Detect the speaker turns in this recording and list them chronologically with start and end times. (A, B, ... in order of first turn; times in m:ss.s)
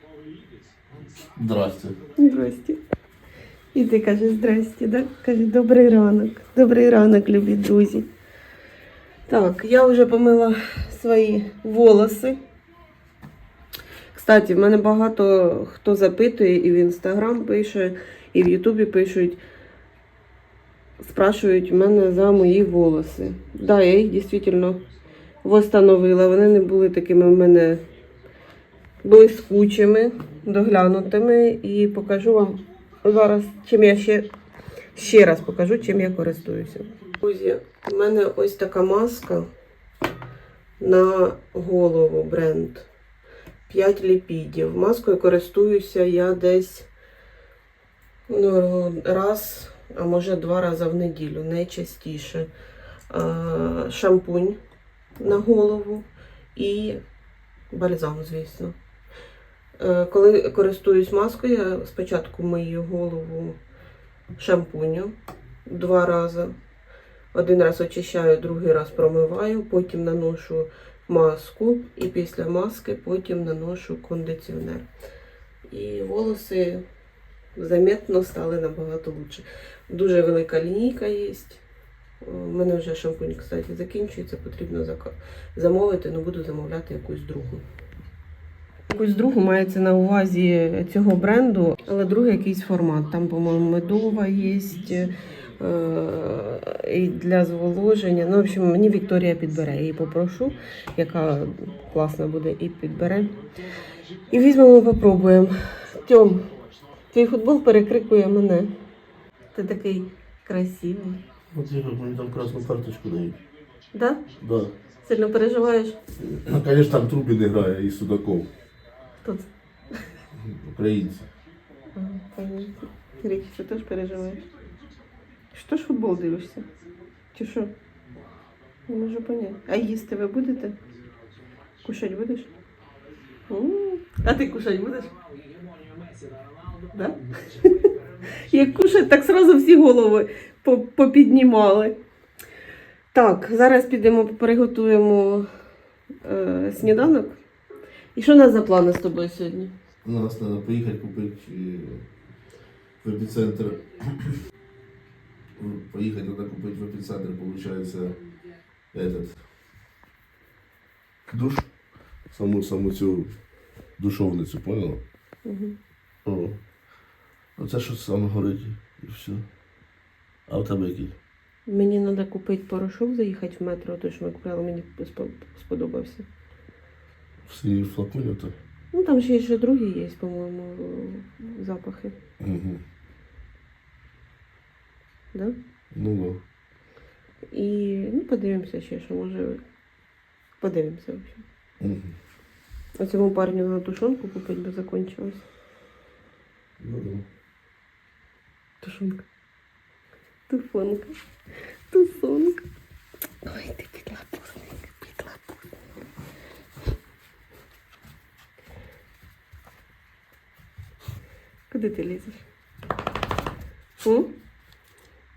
0:01.2-0:02.0 A
0:02.2-0:02.8 B
0:03.7-0:08.1 B
0:09.3-0:12.4 B
0:14.1-0:19.4 B
0:21.0-0:24.8 B
0:25.4-0:27.8 B
0:29.0-0:34.3 B
0:34.9-0:39.5 B
0:40.8-0:42.9 B
0:43.7-0:46.9 B
0:48.3-0:52.5 B
0:53.1-0:54.6 B
0:55.2-0:57.0 B
0:57.7-0:58.8 B
0:59.8-1:03.6 B
1:04.4-1:05.2 B
1:05.7-1:06.6 B
1:07.3-1:14.9 B
1:15.7-1:16.8 B
1:17.6-1:21.6 B
1:22.2-1:27.6 B
1:28.9-1:43.4 B
1:44.3-1:46.4 B
1:47.1-1:48.7 B
1:49.5-1:51.2 B
1:51.5-1:53.4 A
1:53.9-1:54.2 B
1:54.4-1:54.8 A
1:55.0-1:56.0 B
1:56.2-1:58.5 A
1:59.2-1:59.5 B
2:00.4-2:01.3 A
2:01.9-2:04.4 B
2:05.5-2:06.7 B
2:07.3-2:07.7 B
2:08.9-2:10.8 B
2:11.8-2:12.5 B
2:13.5-2:15.1 B
2:16.9-2:22.0 B
2:23.1-2:25.5 B
2:26.2-2:27.4 B
2:28.2-2:29.7 B
2:30.0-2:32.0 A
2:33.0-2:34.4 A
2:35.6-2:38.2 A
2:38.9-2:39.4 A
2:41.3-2:41.7 A
2:42.3-2:43.3 A
2:44.0-2:45.0 A
2:45.4-2:45.8 B
2:46.2-2:46.6 A
2:47.6-2:49.4 A
2:50.5-2:51.2 A
2:51.7-2:56.3 B
2:57.5-2:58.6 A
2:58.9-3:02.2 B
3:02.4-3:02.8 A
3:05.9-3:06.4 A
3:07.5-3:09.6 B
3:10.6-3:11.4 B
3:11.8-3:12.2 A
3:13.0-3:15.4 B
3:16.8-3:17.3 A
3:18.8-3:19.2 B
3:20.5-3:21.1 B
3:21.9-3:22.6 B
3:23.4-3:25.4 B
3:31.7-3:32.4 B
3:34.0-3:34.3 B